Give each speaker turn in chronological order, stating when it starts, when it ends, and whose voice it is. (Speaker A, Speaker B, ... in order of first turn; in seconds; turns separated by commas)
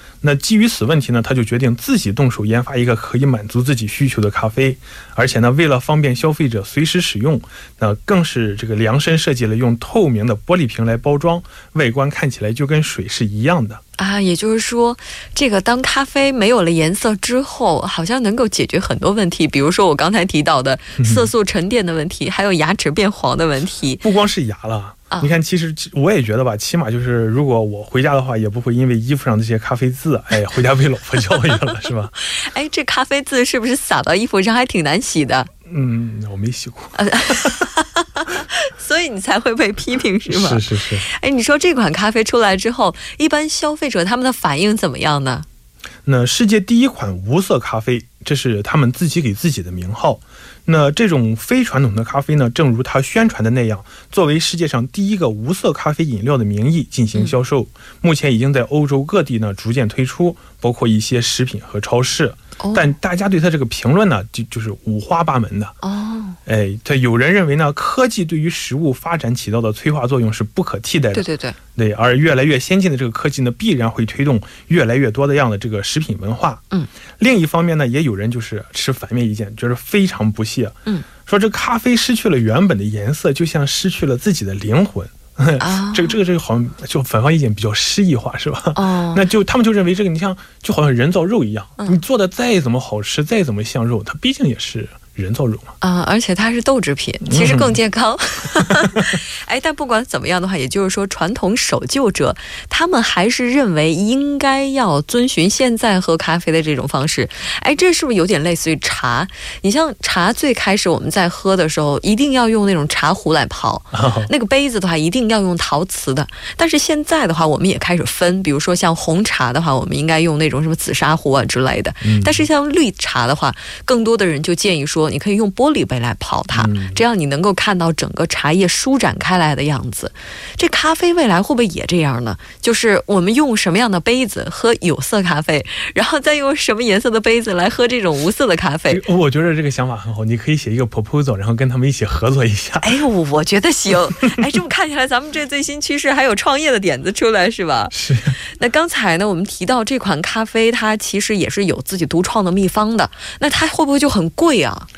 Speaker A: 0.2-13.8, Speaker B: 14.0-24.0, Speaker A: 21.0-21.3, Speaker A: 24.0-32.1, Speaker B: 32.2-35.5, Speaker A: 35.6-37.6, Speaker B: 36.9-45.5, Speaker A: 40.3-41.0, Speaker A: 46.0-65.7, Speaker B: 62.6-62.9, Speaker B: 65.8-66.4, Speaker A: 66.5-76.6, Speaker B: 71.1-71.6, Speaker A: 77.2-95.7, Speaker B: 85.6-86.1, Speaker B: 88.8-89.2, Speaker B: 95.8-139.0, Speaker A: 97.3-97.8, Speaker A: 113.9-114.3, Speaker A: 122.0-122.4, Speaker A: 126.5-127.0, Speaker A: 138.9-143.0, Speaker B: 142.8-147.9, Speaker A: 147.9-148.4, Speaker B: 148.6-154.9